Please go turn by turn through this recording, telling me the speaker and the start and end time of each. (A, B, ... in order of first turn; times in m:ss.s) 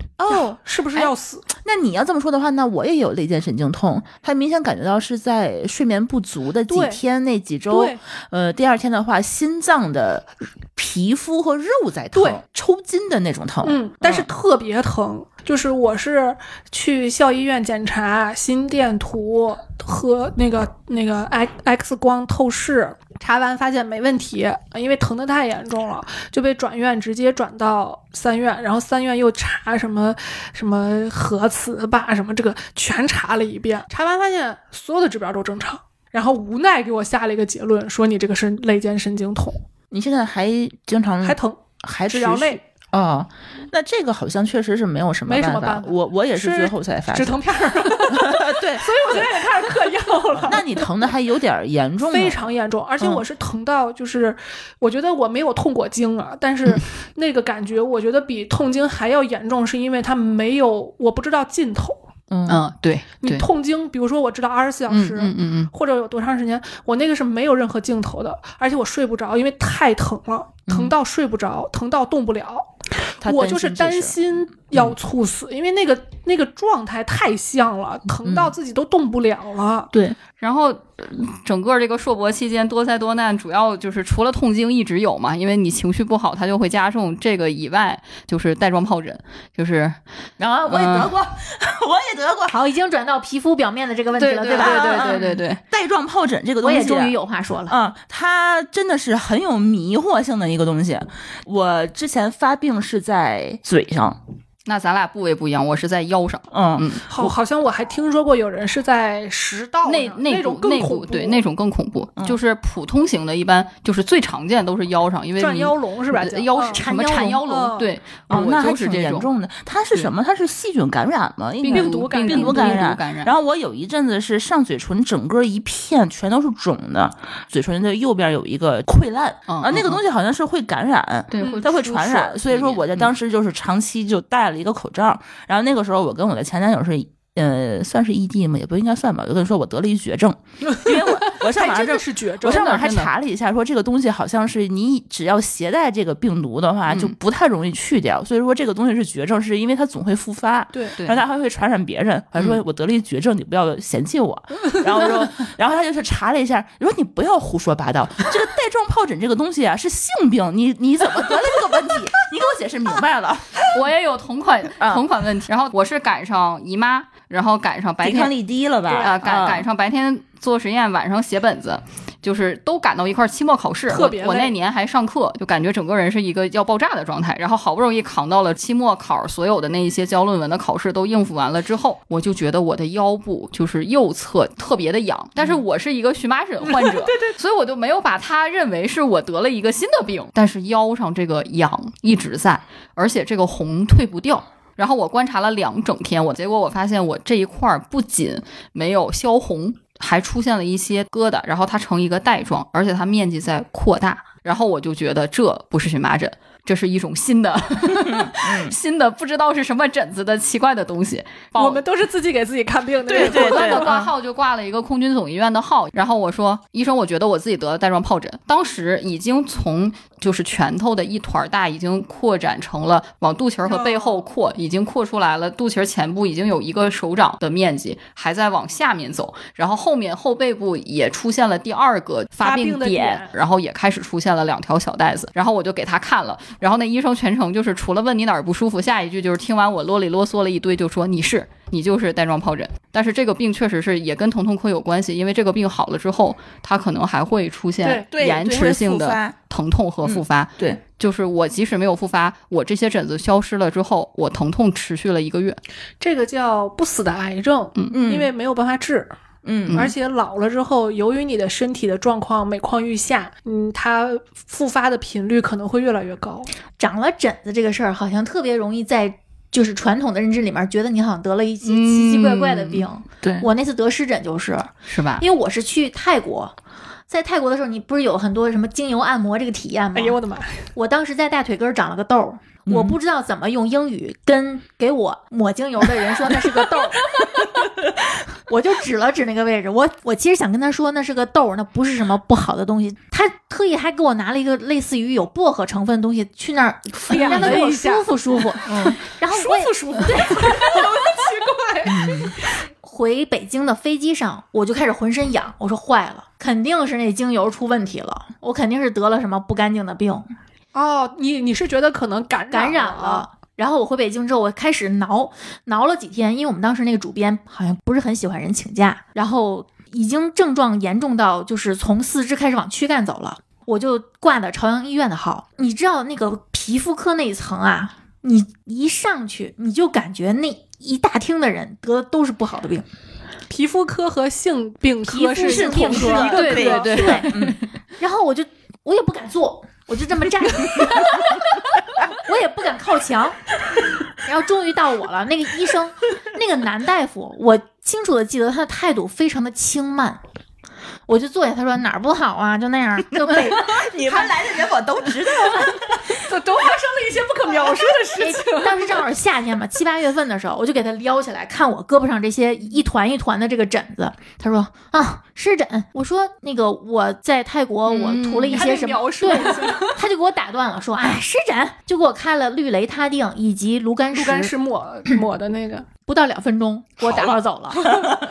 0:00.2-0:14.3 A
0:00.3-0:01.4 B
0:06.7-0:07.0 B
0:07.7-0:08.0 B
0:12.1-0:12.4 B
0:13.6-0:39.6 B
0:39.9-0:47.4 A
0:41.2-0:42.6 B
0:45.2-0:50.9 B
0:47.9-0:49.5 A
0:50.4-0:52.4 A
0:52.1-1:02.0 B
1:02.3-1:02.6 A
1:02.5-1:03.4 C
1:03.2-1:12.7 B
1:04.9-1:05.7 C
1:10.7-1:10.9 A
1:13.2-1:14.2 A
1:13.2-1:19.9 B
1:18.2-1:18.5 A
1:20.4-1:30.0 C
1:30.4-1:32.5 A
1:30.7-1:31.1 C
1:32.5-1:35.4 D
1:34.2-1:35.6 C
1:34.5-1:37.1 A
1:36.6-1:37.7 D
1:37.7-1:44.2 A
1:44.6-1:47.1 C
1:46.5-1:47.3 A
1:47.1-1:51.4 B
1:49.8-1:59.3 C
1:55.4-1:56.8 B
1:56.7-1:57.4 D
1:57.4-1:57.9 B
1:58.3-2:43.6 A
2:01.6-2:03.3 C
2:01.7-2:02.9 B
2:09.5-2:10.0 C
2:11.3-2:13.1 C
2:11.4-2:11.7 B
2:20.8-2:22.8 B
2:22.4-2:23.1 C
2:26.9-2:27.1 C
2:43.7-2:48.3 C
2:48.0-2:49.6 A
2:49.0-3:31.8 C
2:53.9-2:54.5 B
3:06.6-3:07.4 B
3:28.0-3:28.7 A
3:31.6-3:34.1 B
3:33.1-4:15.6 C
3:33.1-3:33.9 A
3:43.6-3:44.2 B
3:52.4-3:53.3 B
4:08.1-4:09.3 A
4:10.0-4:10.8 A
4:16.0-4:19.1 B
4:17.9-4:18.3 A
4:19.4-4:19.9 A
4:19.7-4:19.9 C
4:19.7-4:26.5 B
4:26.8-4:36.5 D
4:31.6-4:33.4 C
4:34.9-4:35.2 C
4:37.1-4:40.2 D
4:39.9-4:40.7 B
4:40.7-4:47.0 D
4:42.6-4:43.0 A
4:48.5-5:00.8 D
4:57.1-4:58.1 B
4:57.3-4:57.6 C
4:58.7-4:58.9 A
4:58.7-5:02.5 B
5:01.9-5:02.3 A
5:02.8-5:10.3 D
5:10.7-5:13.2 B
5:12.5-5:32.8 D
5:33.5-5:37.0 B
5:35.0-5:37.4 D
5:35.4-5:37.6 A
5:36.3-5:37.6 C
5:38.0-5:41.4 D
5:42.1-5:43.4 D
5:44.2-5:50.2 D
5:51.1-5:54.3 D
5:53.2-5:56.0 A
5:56.1-5:59.0 B
5:57.7-6:14.5 D
6:07.9-6:08.6 C
6:08.4-6:10.0 B
6:14.1-6:15.8 B
6:16.0-6:18.0 D
6:17.0-6:17.3 A
6:17.8-6:18.1 A